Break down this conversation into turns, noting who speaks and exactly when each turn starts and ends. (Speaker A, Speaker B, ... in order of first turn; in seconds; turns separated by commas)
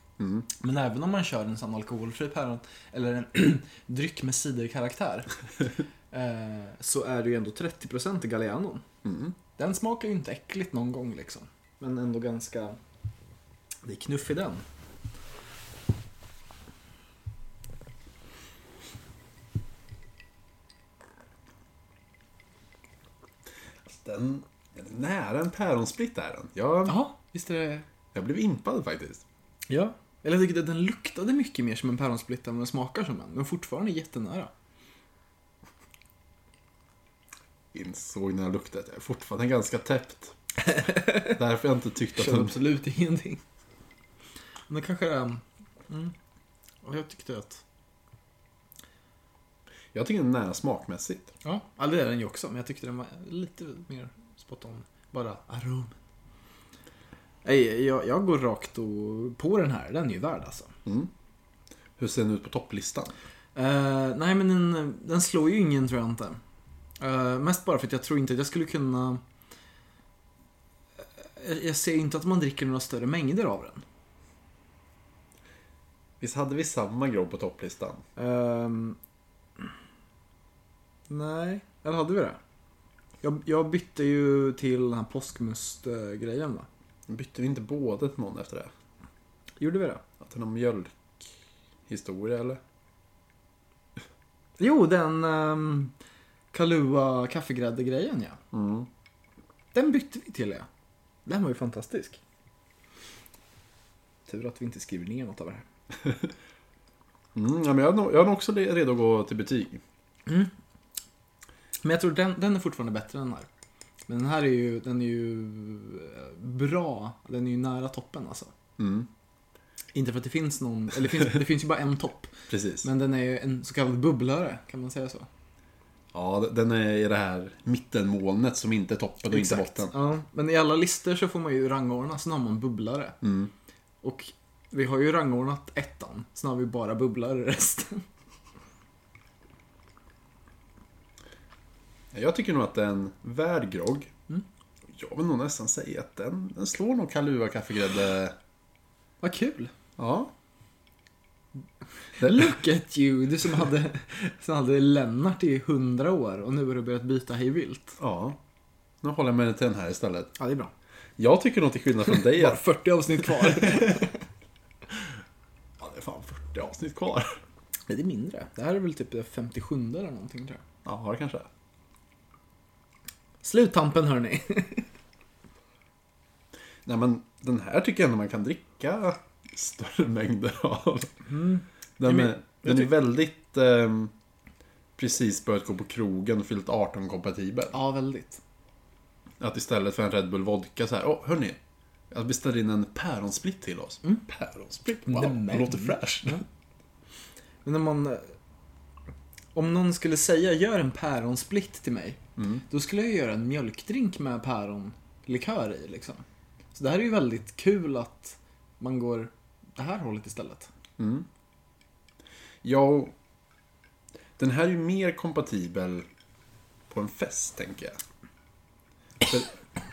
Speaker A: 0.2-0.5, Speaker B: 0.5-5.3, Speaker B: 6.1-8.8, Speaker A: 9.1-9.3, Speaker B: 9.6-12.8, Speaker B: 13.8-14.7, Speaker A: 23.9-27.0, Speaker B: 26.9-27.9, Speaker A: 28.1-29.2, Speaker B: 29.7-34.5, Speaker A: 37.7-40.4, Speaker B: 40.8-41.3, Speaker A: 41.2-42.6, Speaker B: 42.1-43.4, Speaker B: 44.7-46.1, Speaker B: 46.8-47.6, Speaker A: 49.9-51.3, Speaker B: 51.4-56.0, Speaker B: 57.5-60.7, Speaker A: 60.9-61.1, Speaker A: 62.0-63.1, Speaker B: 63.5-66.4, Speaker B: 67.0-69.2, Speaker B: 71.2-73.8, Speaker A: 76.2-78.0, Speaker B: 78.2-79.0, Speaker B: 81.1-82.4, Speaker B: 83.2-86.7, Speaker A: 87.1-88.7, Speaker B: 89.6-90.0, Speaker A: 90.2-91.3, Speaker A: 91.9-92.6, Speaker B: 94.6-95.9, Speaker B: 96.5-98.4, Speaker A: 98.5-98.9, Speaker B: 99.7-100.7, Speaker B: 101.3-102.2, Speaker B: 104.3-105.7, Speaker A: 107.3-109.8, Speaker B: 110.3-110.5, Speaker B: 111.8-113.5, Speaker B: 114.1-118.5, Speaker A: 118.8-119.1, Speaker B: 119.9-122.3, Speaker A: 122.5-122.9, Speaker B: 122.8-125.3, Speaker A: 126.1-129.9, Speaker B: 129.3-133.2, Speaker A: 133.2-133.5, Speaker B: 134.0-138.1, Speaker A: 142.1-144.1, Speaker A: 144.9-148.4, Speaker B: 149.2-149.7, Speaker A: 150.0-150.3, Speaker B: 152.2-158.0, Speaker A: 158.0-158.4, Speaker A: 159.0-160.3, Speaker B: 160.4-160.7, Speaker A: 161.2-162.6, Speaker B: 162.1-164.2, Speaker A: 163.2-164.0, Speaker A: 165.8-167.4, Speaker B: 167.9-170.6, Speaker A: 170.8-171.5, Speaker B: 173.4-174.9, Speaker A: 176.8-181.1, Speaker B: 181.3-182.9, Speaker A: 182.0-184.1, Speaker A: 185.0-187.8, Speaker B: 187.7-188.4, Speaker A: 189.4-191.6, Speaker A: 192.1-196.4, Speaker B: 195.1-196.4, Speaker B: 197.6-198.3, Speaker B: 199.6-210.7, Speaker A: 202.4-202.6, Speaker A: 211.0-211.3, Speaker A: 212.6-213.1, Speaker A: 214.4-216.1, Speaker A: 216.9-218.0, Speaker A: 219.3-219.5